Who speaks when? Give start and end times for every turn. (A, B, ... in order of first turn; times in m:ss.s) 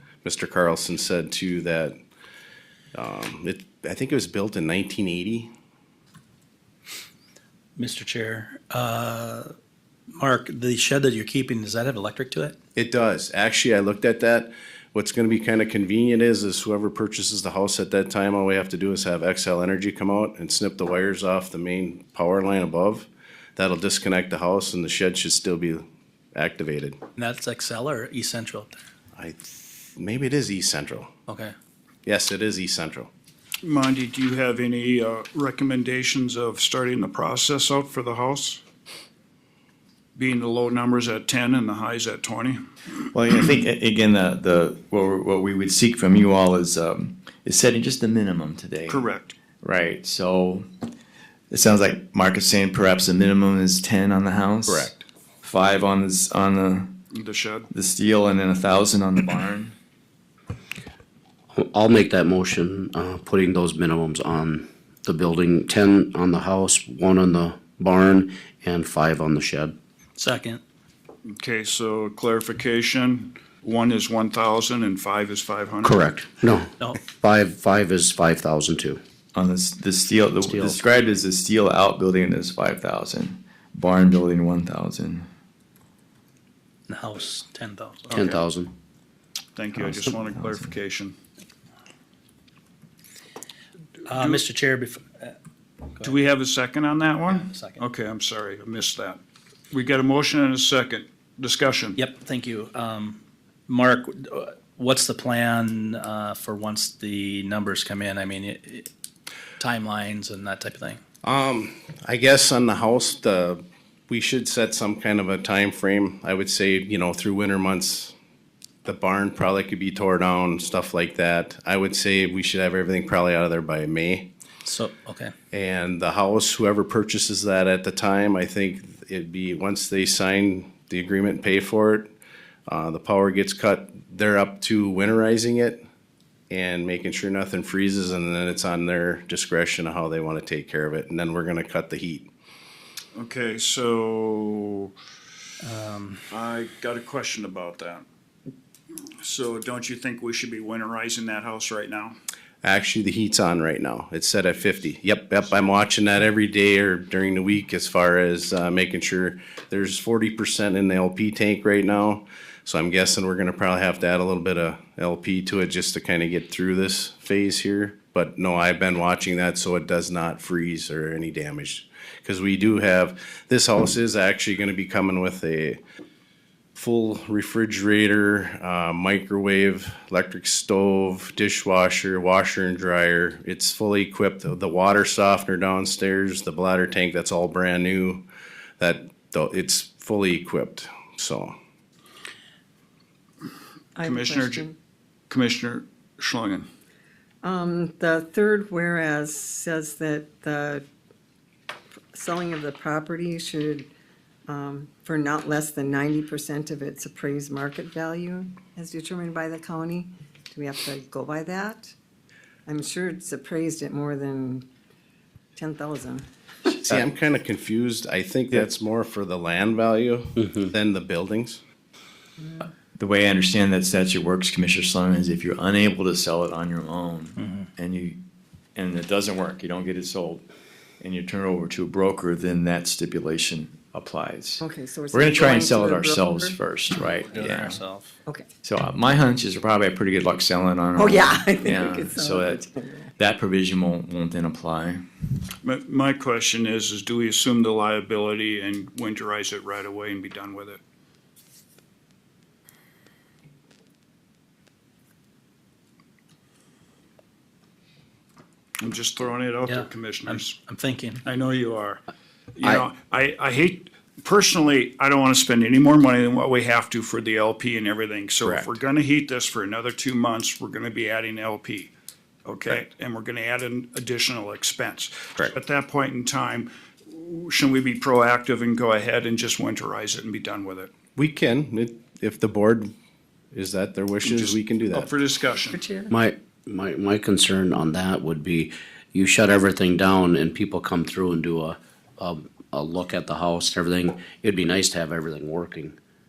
0:00.2-0:02.0 A
0:02.9-0:05.5 A
0:07.8-0:09.5 B
0:10.1-0:12.5 B
0:12.8-0:27.0 A
0:27.2-0:28.8 B
0:29.2-0:31.1 A
0:31.3-0:31.5 B
0:32.0-0:33.1 A
0:33.6-0:38.6 C
0:40.2-0:42.6 C
0:43.1-0:49.0 D
0:48.9-0:49.3 C
0:49.6-0:50.7 D
0:51.5-0:54.9 D
0:54.6-0:55.0 A
0:55.4-0:57.0 D
0:57.1-0:57.7 C
0:57.7-0:59.7 D
1:01.5-1:09.8 E
1:10.2-1:10.6 B
1:11.3-1:16.1 C
1:15.8-1:19.0 E
1:19.3-1:25.3 D
1:20.4-1:20.8 E
1:26.9-1:28.4 B
1:28.1-1:28.7 E
1:29.6-1:31.2 C
1:34.0-1:35.3 B
1:36.0-1:39.2 C
1:37.3-1:37.8 B
1:39.7-1:42.0 C
1:42.0-1:48.9 B
1:49.6-1:51.0 B
1:51.2-1:58.1 A
1:58.8-2:04.3 A
2:04.6-2:05.3 B
2:05.5-2:12.1 A
2:12.7-2:15.8 A
2:16.5-2:22.3 A
2:23.1-2:24.9 C
2:25.6-2:26.2 B
2:26.3-2:28.0 C
2:29.2-2:32.2 C
2:32.6-2:55.8 A
2:56.7-3:08.2 A
3:08.8-3:11.5 A
3:14.0-3:14.7 F
3:14.0-3:14.7 C
3:15.3-3:16.7 C
3:17.4-3:20.8 F
3:22.1-3:23.9 F
3:24.5-3:31.9 F
3:32.7-3:34.6 F
3:35.6-3:36.2 F
3:36.8-3:41.6 A
3:43.0-3:48.2 D
3:48.7-3:50.4 D
3:51.0-3:57.8 D
3:54.6-3:56.5 F
3:57.3-3:58.1 B
3:58.6-4:02.6 D
4:01.0-4:03.0 F
4:03.2-4:05.0 D
4:05.6-4:10.8 C
4:18.8-4:20.6 C
4:19.7-4:21.2 B
4:21.2-4:22.0 C
4:22.6-4:31.9 C
4:28.4-4:28.7 A
4:32.4-4:40.9 C
4:41.2-4:42.9 A
4:43.5-4:45.1 A
4:44.2-4:45.8 C
4:45.7-4:46.1 F
4:46.1-4:56.0 E